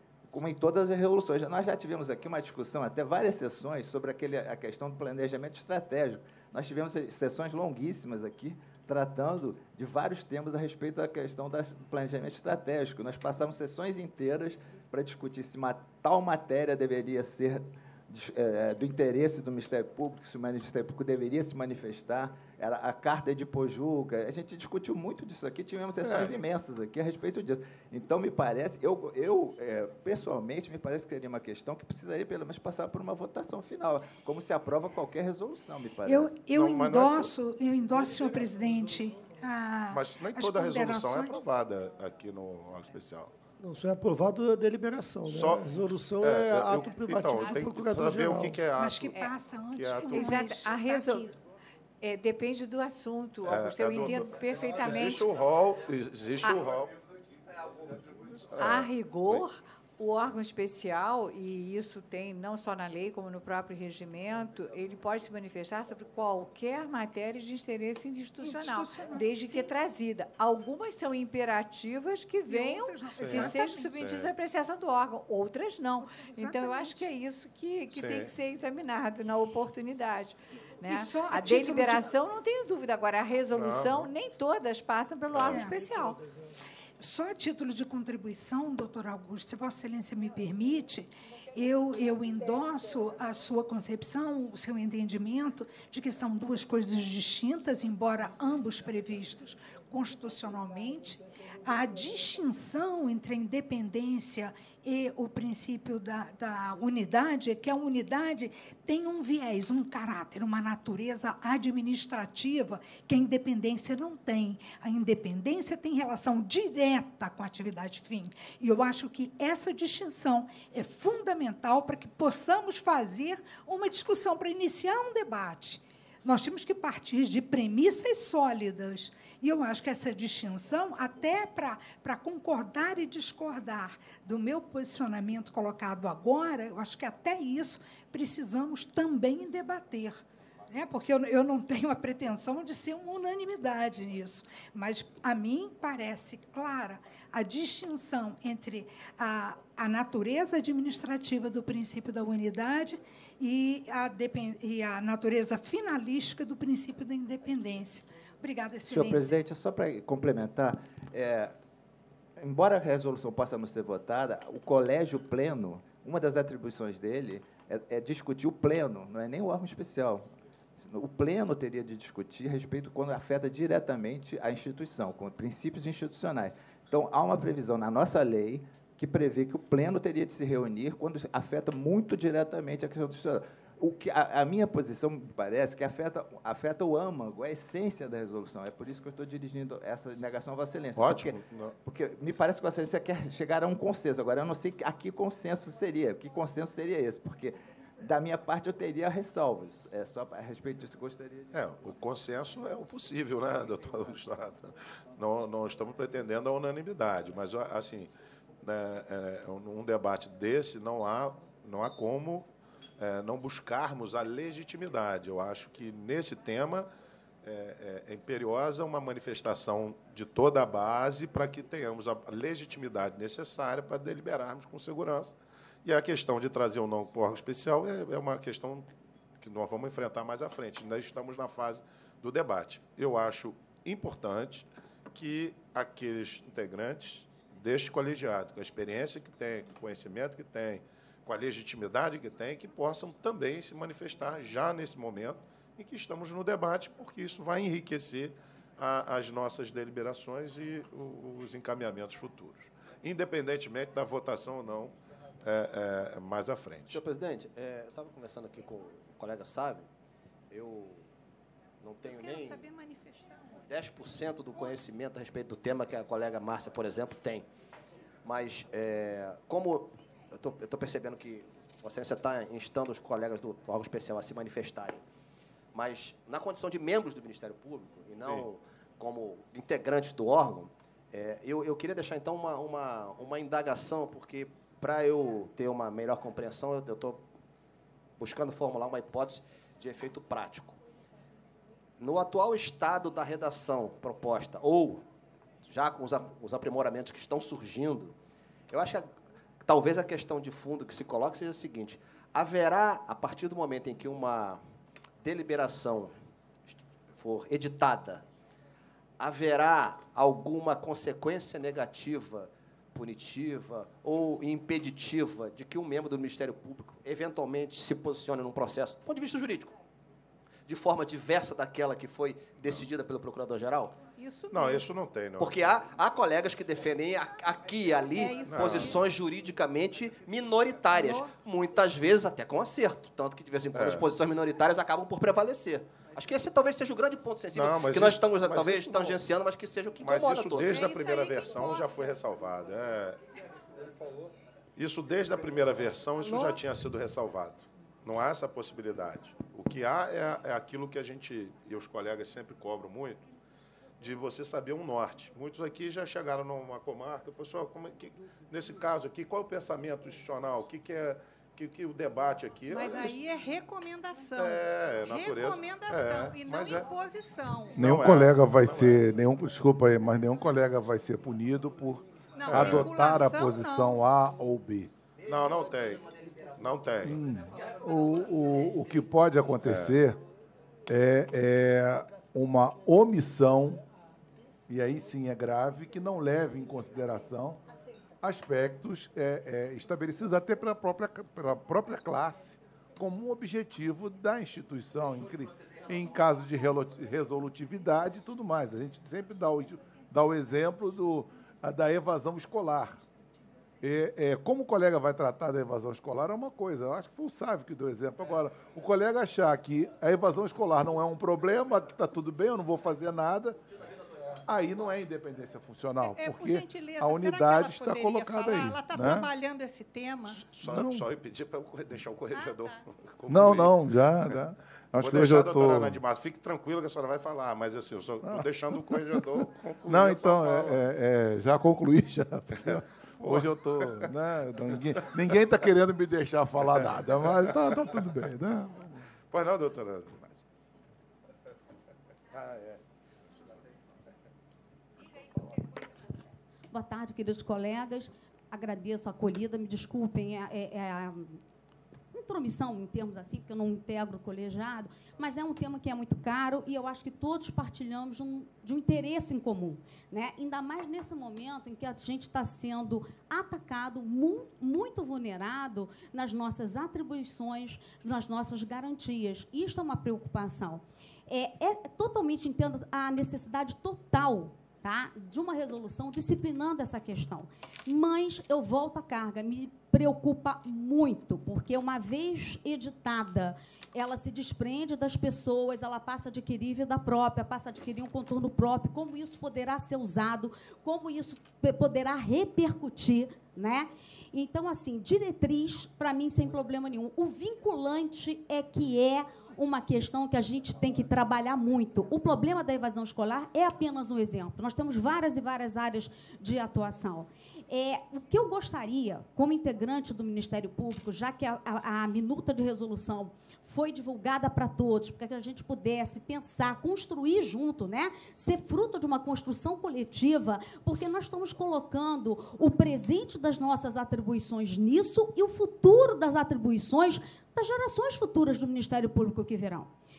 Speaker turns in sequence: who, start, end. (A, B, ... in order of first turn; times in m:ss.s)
0:00.3-0:36.3 A
0:26.0-0:26.3 B
0:36.0-0:41.4 C
0:36.5-0:37.3 B
0:39.9-0:43.3 B
0:43.6-0:48.6 D
0:45.3-0:49.2 B
0:48.7-0:51.3 C
0:49.1-0:49.4 E
0:49.7-0:50.6 B
0:50.1-0:51.3 E
0:52.0-0:55.3 E
0:53.4-0:56.9 B
0:58.5-0:59.5 B
0:58.5-1:26.2 E
1:08.4-1:09.7 C
1:12.4-1:14.1 C
1:13.2-1:14.3 B
1:16.0-1:17.1 C
1:17.9-1:18.3 B
1:20.8-1:22.2 C
1:23.5-1:24.1 B
1:25.3-1:25.7 B
1:25.4-1:25.8 C
1:27.0-2:39.4 C
2:38.9-2:41.6 A
2:42.4-3:21.6 A
3:11.0-3:11.7 B
3:21.5-3:28.1 B
3:28.6-3:32.4 B
3:33.0-3:36.9 B
3:37.4-4:17.0 B
4:16.9-4:19.9 F
4:20.5-4:21.1 F
4:21.8-4:22.7 F
4:22.1-4:23.6 G
4:23.6-4:27.5 F
4:28.2-4:35.0 F
4:35.7-4:47.2 F
4:48.2-4:50.8 F
4:52.0-4:55.0 F
4:55.6-4:58.1 F
4:58.7-4:59.1 F
4:59.6-5:04.6 F
5:05.2-5:06.1 F
5:06.7-5:08.2 F
5:09.2-5:19.7 F
5:20.7-5:24.0 F
5:24.1-5:24.9 G
5:24.5-5:25.8 B
5:25.4-5:40.8 F
5:28.1-5:29.0 G
5:28.4-5:29.0 B
5:30.9-5:31.3 G
5:33.7-5:34.1 B
5:37.5-5:39.2 B
5:40.0-5:43.2 B
5:40.6-5:42.0 G
5:44.8-5:53.2 B
5:54.0-6:03.2 B
6:02.7-6:07.8 G
6:04.4-6:06.8 B
6:07.7-6:14.9 H
6:07.8-6:09.0 B
6:12.4-6:14.0 G
6:12.5-6:12.9 B
6:15.2-6:17.2 B
6:17.0-6:20.2 H
6:19.6-6:20.0 B
6:20.9-6:23.8 H
6:24.7-6:27.6 H
6:28.2-6:43.0 H
6:43.8-6:53.6 H
6:54.5-6:59.3 H
6:56.0-7:00.4 G
7:00.3-7:03.9 B
7:00.6-7:01.0 H
7:02.3-7:02.8 G
7:03.3-7:06.0 H
7:05.0-7:10.8 B
7:08.2-7:09.2 H
7:09.8-7:19.0 H
7:12.6-7:14.0 B
7:19.3-7:20.4 B
7:22.3-7:22.8 B
7:26.7-7:31.4 I
7:32.1-8:49.9 I